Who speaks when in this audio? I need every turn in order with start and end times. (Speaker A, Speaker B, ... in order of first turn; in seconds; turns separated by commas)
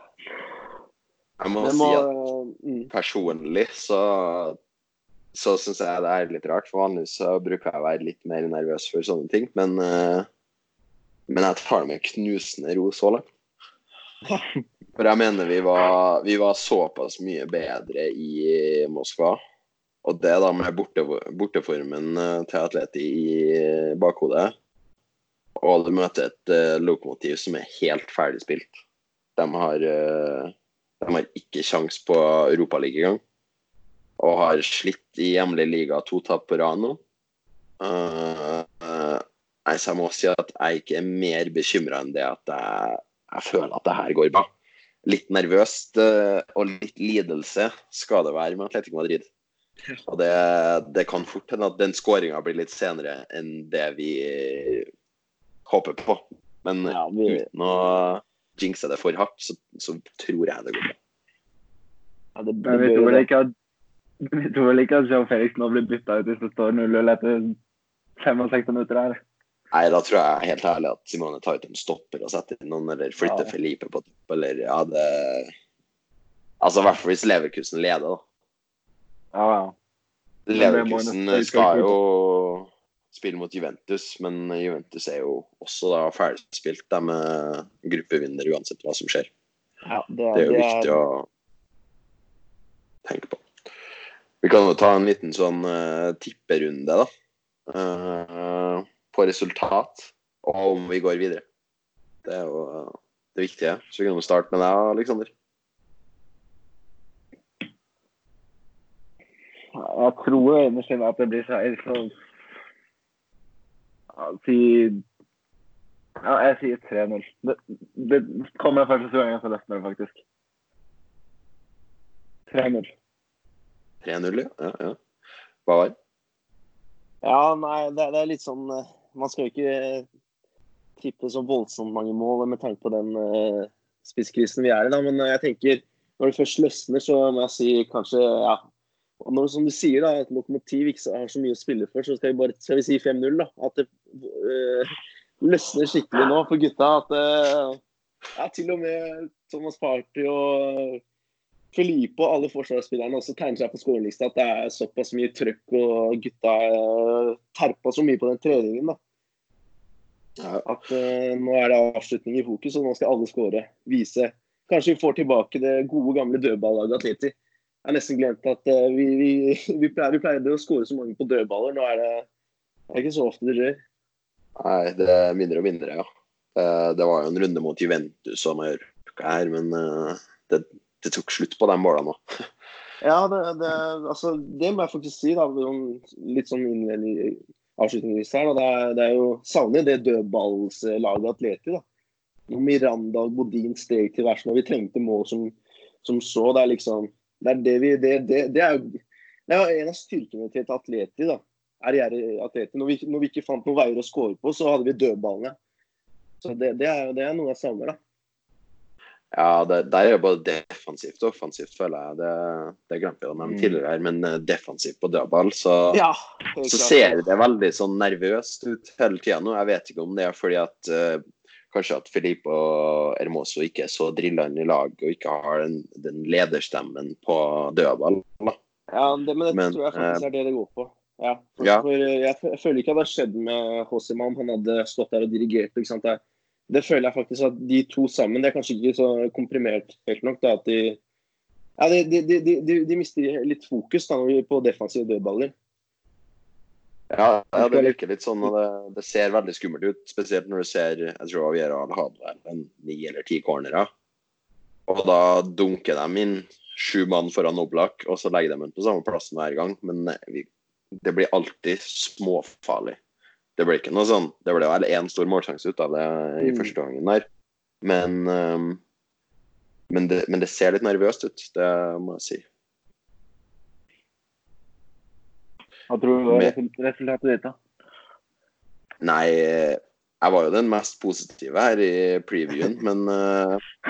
Speaker A: 1.4-2.1, Speaker B: 1.6-2.9, Speaker A: 2.9-4.6, Speaker A: 5.3-10.3, Speaker A: 11.3-13.2, Speaker A: 15.0-19.4, Speaker A: 20.0-24.5, Speaker A: 25.6-28.8, Speaker A: 29.4-33.2, Speaker A: 34.2-37.0, Speaker A: 37.8-44.5, Speaker A: 45.0-49.3, Speaker A: 50.1-54.9, Speaker A: 55.7-61.0, Speaker B: 56.9-57.5, Speaker B: 62.4-63.2, Speaker C: 62.6-63.5, Speaker C: 64.2-67.5, Speaker C: 68.2-69.2, Speaker A: 69.7-75.5, Speaker C: 73.2-73.5, Speaker A: 76.6-78.2, Speaker C: 79.3-79.7, Speaker A: 80.5-89.3, Speaker C: 80.5-81.9, Speaker B: 89.8-91.0, Speaker A: 90.3-91.2, Speaker A: 93.0-93.4, Speaker A: 94.4-97.1, Speaker A: 97.7-101.4, Speaker A: 102.2-105.3, Speaker C: 109.7-112.1, Speaker C: 114.1-115.0, Speaker C: 116.2-120.2, Speaker C: 122.5-122.9, Speaker A: 124.0-125.0, Speaker A: 125.7-125.9, Speaker B: 127.2-130.1, Speaker B: 131.0-138.6, Speaker B: 139.2-147.8, Speaker B: 148.3-151.0, Speaker B: 151.7-159.0, Speaker A: 160.4-160.6, Speaker B: 160.6-172.2, Speaker B: 172.9-173.8, Speaker A: 174.6-182.2, Speaker B: 183.0-191.8, Speaker B: 192.5-205.5, Speaker B: 206.4-208.0, Speaker A: 209.3-216.0, Speaker B: 215.9-217.2, Speaker A: 216.7-228.6, Speaker B: 228.9-241.0, Speaker A: 229.5-230.2, Speaker A: 231.6-231.8, Speaker B: 241.8-245.5, Speaker A: 247.1-253.9, Speaker C: 247.6-247.9, Speaker A: 254.9-263.0, Speaker A: 263.6-267.2, Speaker B: 266.4-266.7, Speaker A: 267.8-268.8, Speaker A: 269.9-272.4, Speaker C: 275.9-277.6, Speaker A: 276.3-276.5, Speaker A: 279.0-283.6